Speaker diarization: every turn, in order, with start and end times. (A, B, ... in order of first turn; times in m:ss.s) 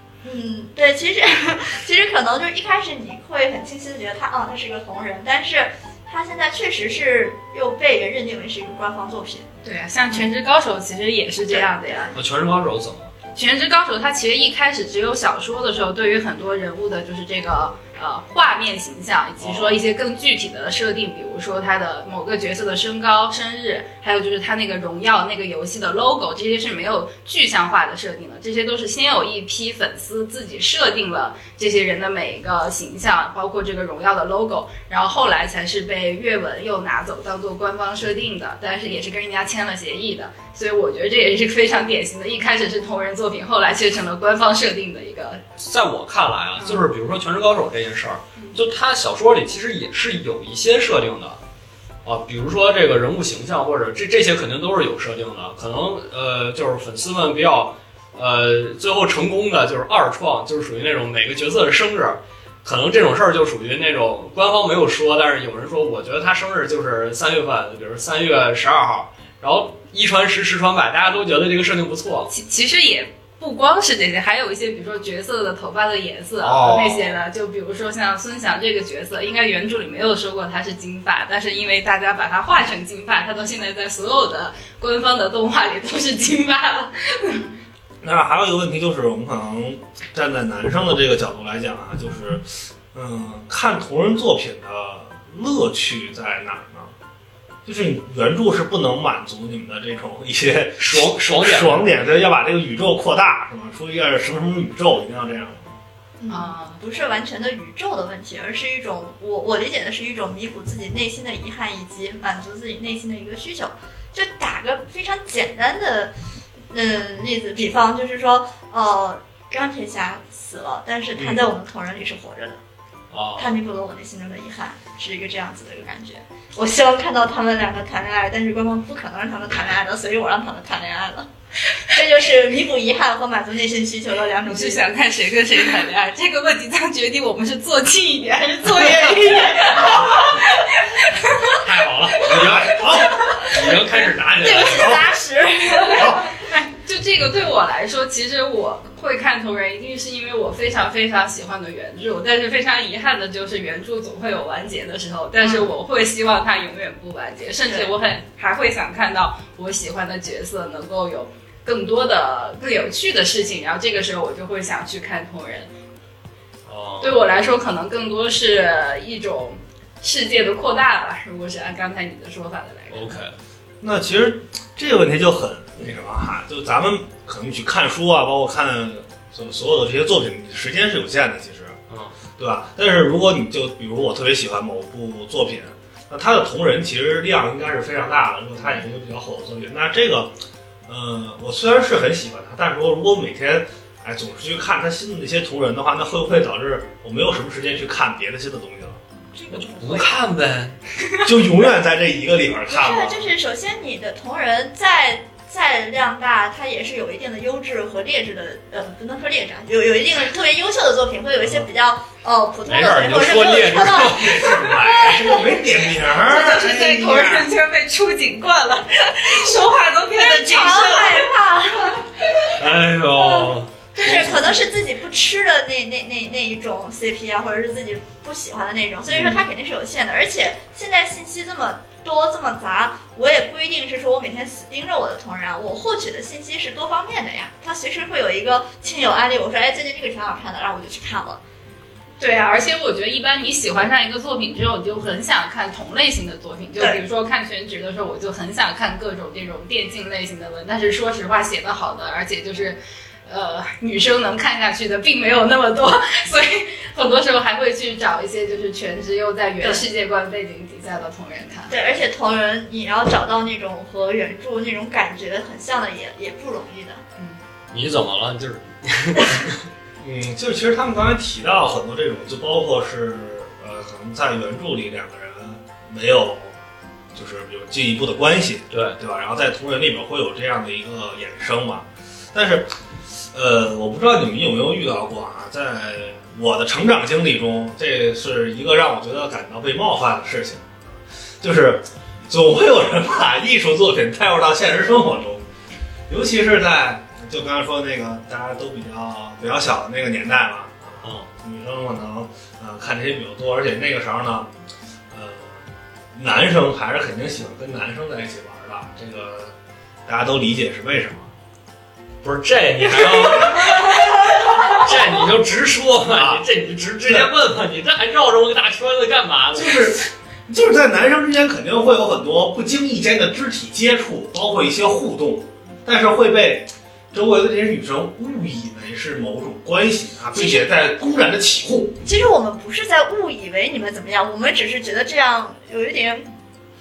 0:00.2-0:09.5 A
0:09.6-0:12.1 B
0:11.5-0:12.1 A
0:12.1-0:13.1 C
0:13.4-0:45.4 B
0:19.4-0:19.8 C
0:45.6-0:51.4 C
0:52.0-1:12.3 C
1:12.3-1:27.5 B
1:16.4-1:17.2 C
1:28.0-1:36.9 D
1:37.6-1:45.7 D
1:40.8-1:41.9 C
1:46.2-1:56.1 A
1:46.3-1:46.8 B
1:56.7-2:02.6 A
2:01.2-2:01.4 D
2:03.1-2:03.6 C
2:03.4-2:11.3 A
2:11.9-2:14.9 A
2:14.5-2:23.5 B
2:21.6-2:22.8 C
2:22.2-2:23.5 D
2:23.4-2:25.0 C
2:23.9-2:26.2 A
2:24.6-2:25.1 D
2:25.7-2:45.7 B
2:25.9-2:26.3 D
2:35.4-2:35.7 A
2:46.7-2:47.2 C
2:47.0-2:53.2 B
2:52.9-2:53.3 C
2:53.8-3:01.8 D
3:02.4-3:10.3 D
3:10.9-3:19.0 D
3:19.3-3:20.2 A
3:19.5-3:20.8 C
3:21.2-3:23.3 D
3:22.7-3:35.5 A
3:32.7-3:34.6 C
3:33.7-3:37.5 D
3:36.1-3:41.3 B
3:40.1-3:42.0 A
3:42.6-3:44.4 C
3:43.1-4:01.4 A
3:44.1-3:44.4 D
3:49.1-3:49.4 D
4:02.2-4:22.0 B
4:21.7-4:27.0 A
4:27.7-4:29.6 C
4:30.0-4:36.5 D
4:37.1-4:42.7 D
4:38.7-4:39.0 C
4:43.3-4:55.4 D
4:56.1-5:04.5 D
5:05.1-5:05.6 D
5:06.2-5:09.5 D
5:10.1-5:11.3 D
5:12.2-5:14.0 C
5:12.9-5:13.8 D
5:14.6-5:20.0 C
5:16.1-5:16.4 D
5:17.0-5:17.3 D
5:19.6-5:32.0 D
5:30.3-5:30.7 A
5:32.0-5:36.3 A